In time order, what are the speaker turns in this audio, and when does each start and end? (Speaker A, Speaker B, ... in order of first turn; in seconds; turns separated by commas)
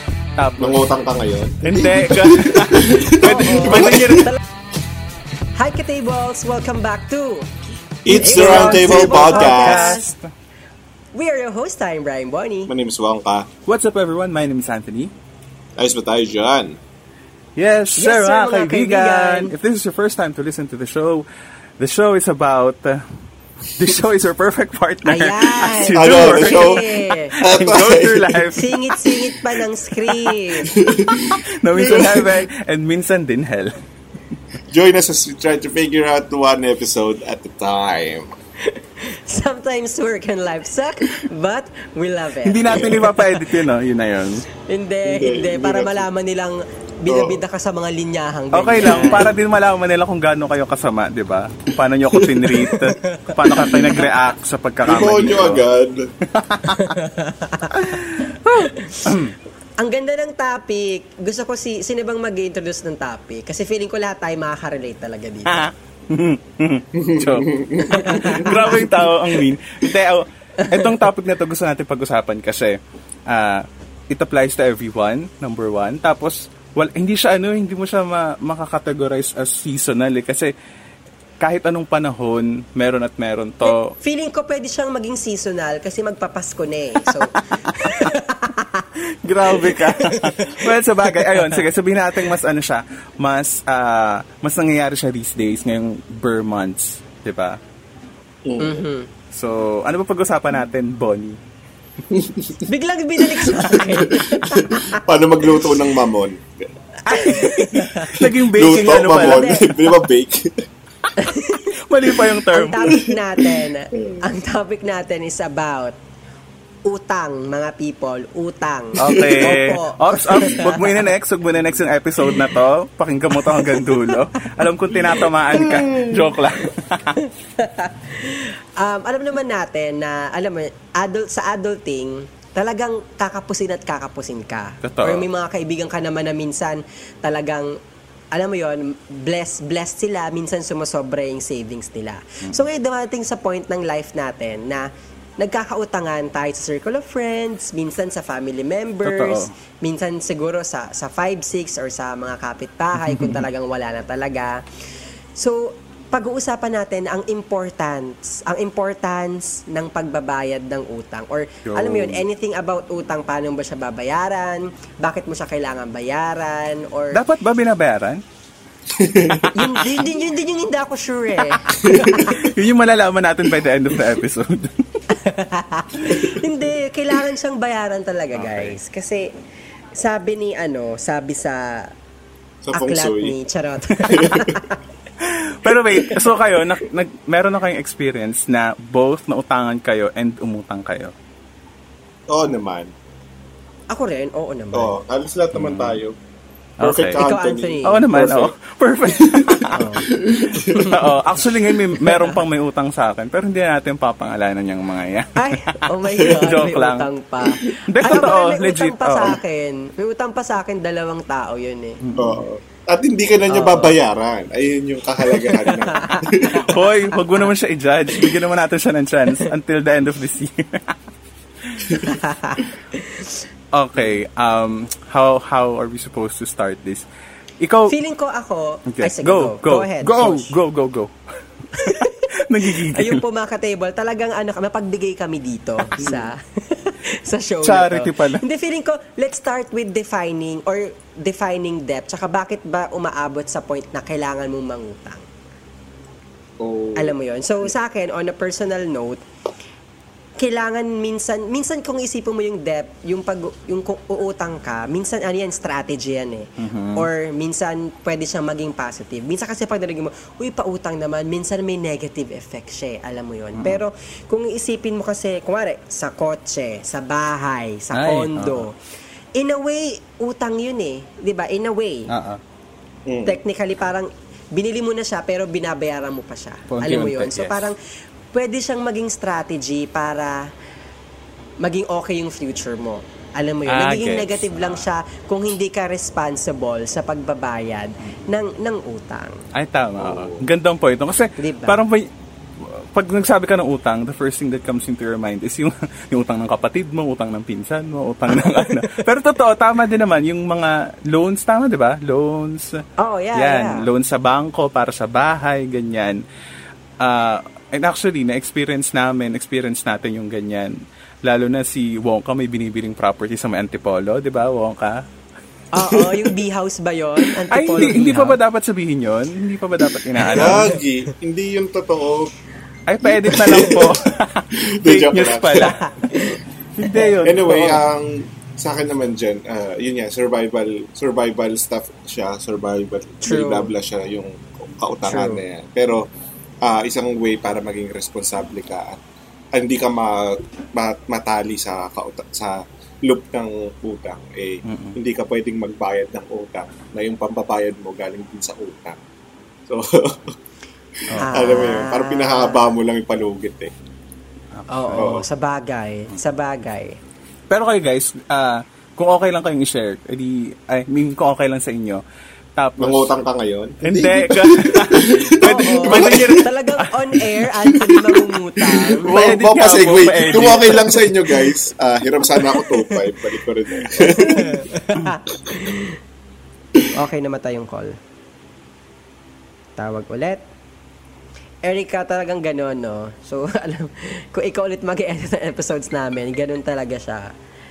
Speaker A: 0.4-0.8, Speaker B: 0.6-4.2, Speaker A: 1.6-4.3, Speaker C: 3.2-4.4, Speaker C: 5.5-7.5, Speaker B: 8.0-10.0, Speaker A: 8.1-10.2, Speaker C: 8.1-10.1, Speaker C: 11.1-12.7, Speaker B: 12.7-13.5, Speaker A: 13.7-15.1, Speaker B: 15.8-16.8, Speaker A: 17.6-21.2, Speaker C: 18.0-19.5, Speaker A: 21.8-23.1, Speaker A: 23.7-29.3, Speaker C: 25.0-27.3, Speaker B: 25.9-26.9, Speaker B: 27.4-28.5, Speaker C: 28.5-30.7, Speaker B: 30.7-32.5, Speaker A: 31.3-33.7, Speaker B: 34.7-38.4, Speaker C: 38.7-43.3, Speaker A: 42.4-44.4, Speaker B: 42.7-43.0, Speaker C: 44.7-49.3, Speaker B: 45.0-46.0, Speaker B: 47.1-47.4, Speaker A: 48.5-55.6, Speaker B: 52.1-52.4, Speaker C: 52.7-54.0, Speaker B: 54.8-56.1, Speaker A: 56.3-57.0, Speaker C: 56.6-59.2, Speaker A: 57.7-59.3, Speaker C: 59.8-65.7, Speaker A: 65.5-80.5, Speaker B: 66.9-68.8, Speaker C: 67.9-68.9, Speaker C: 70.6-70.9, Speaker A: 81.4-83.9, Speaker C: 83.6-88.9, Speaker A: 87.2-88.1, Speaker A: 89.2-97.6, Speaker C: 89.4-91.6, Speaker B: 98.4-98.8, Speaker C: 98.6-99.1, Speaker A: 99.3-101.4, Speaker B: 102.1-102.6, Speaker C: 102.7-105.0, Speaker B: 103.5-106.7, Speaker C: 107.0-108.2, Speaker A: 107.1-109.6, Speaker B: 108.5-110.6, Speaker C: 109.2-109.8, Speaker C: 111.2-111.7, Speaker A: 111.7-112.9, Speaker C: 112.5-115.9, Speaker C: 116.8-120.9, Speaker A: 119.0-127.2, Speaker B: 119.0-119.4, Speaker C: 123.4-124.2, Speaker B: 125.6-126.2, Speaker C: 127.2-137.8, Speaker A: 134.8-135.2, Speaker C: 138.3-144.9, Speaker C: 145.4-154.6, Speaker A: 149.0-149.5, Speaker A: 153.0-153.4, Speaker C: 155.3-167.2, Speaker A: 161.7-162.2, Speaker A: 167.1-168.2, Speaker B: 168.9-169.5, Speaker A: 169.3-169.9, Speaker C: 169.5-172.4, Speaker A: 171.7-175.0, Speaker B: 171.8-172.3, Speaker C: 175.1-179.3, Speaker A: 178.3-178.7, Speaker C: 179.9-181.9, Speaker B: 182.6-183.3, Speaker C: 182.7-184.8, Speaker B: 184.1-184.6, Speaker A: 185.2-191.1, Speaker B: 192.3-192.9, Speaker C: 193.9-194.9, Speaker B: 194.7-196.2, Speaker A: 195.5-196.0, Speaker A: 196.8-197.2, Speaker B: 196.8-198.5, Speaker C: 197.2-198.0, Speaker A: 197.8-199.9, Speaker B: 199.3-200.9, Speaker C: 199.7-200.1, Speaker C: 200.6-201.1, Speaker A: 200.8-207.1, Speaker C: 202.0-202.4, Speaker C: 205.4-212.0, Speaker A: 207.9-209.3, Speaker A: 212.0-212.4, Speaker B: 212.2-216.7, Speaker C: 213.5-213.9, Speaker C: 215.6-216.8, Speaker A: 216.5-221.0, Speaker C: 222.0-223.4, Speaker A: 223.7-227.0, Speaker A: 227.6-227.9, Speaker C: 227.9-230.5, Speaker A: 228.9-231.1, Speaker A: 231.7-233.2, Speaker C: 231.7-245.2, Speaker A: 236.0-236.2, Speaker A: 237.6-238.4, Speaker B: 246.6-247.1, Speaker C: 246.9-249.2, Speaker C: 250.4-268.7, Speaker A: 256.6-257.1, Speaker A: 263.6-263.8, Speaker A: 267.9-268.6, Speaker C: 269.3-272.1, Speaker A: 272.1-272.4, Speaker B: 273.1-273.4, Speaker C: 273.2-277.8, Speaker A: 276.7-277.7, Speaker C: 278.3-280.5, Speaker C: 281.6-289.4, Speaker A: 283.7-284.8, Speaker A: 289.5-292.1, Speaker B: 290.0-290.4, Speaker C: 291.4-291.8, Speaker A: 292.6-302.8, Speaker C: 298.4-299.0, Speaker C: 303.0-303.9, Speaker A: 303.4-306.2, Speaker A: 307.0-315.0, Speaker C: 315.7-318.4, Speaker B: 315.9-316.3, Speaker A: 317.5-320.8, Speaker C: 320.2-320.8, Speaker B: 320.2-322.3, Speaker A: 322.9-325.8, Speaker B: 323.2-323.9, Speaker B: 324.5-325.8, Speaker C: 325.6-326.4, Speaker A: 326.8-327.8, Speaker B: 327.0-336.0, Speaker C: 333.2-333.7, Speaker C: 335.1-335.4, Speaker B: 336.6-339.0, Speaker B: 339.5-349.0, Speaker A: 344.6-344.9, Speaker B: 349.7-350.3, Speaker B: 351.0-353.7, Speaker A: 351.1-351.5, Speaker C: 351.2-352.8, Speaker A: 354.5-355.2, Speaker C: 354.7-357.0, Speaker B: 354.9-355.2, Speaker A: 357.5-362.0, Speaker A: 362.6-363.1, Speaker B: 362.8-366.4, Speaker A: 363.8-367.2, Speaker C: 365.4-369.1, Speaker B: 367.7-374.7, Speaker A: 369.0-371.0, Speaker C: 372.6-372.8, Speaker C: 373.9-376.0, Speaker C: 376.9-378.0, Speaker C: 379.8-380.4, Speaker C: 381.6-387.3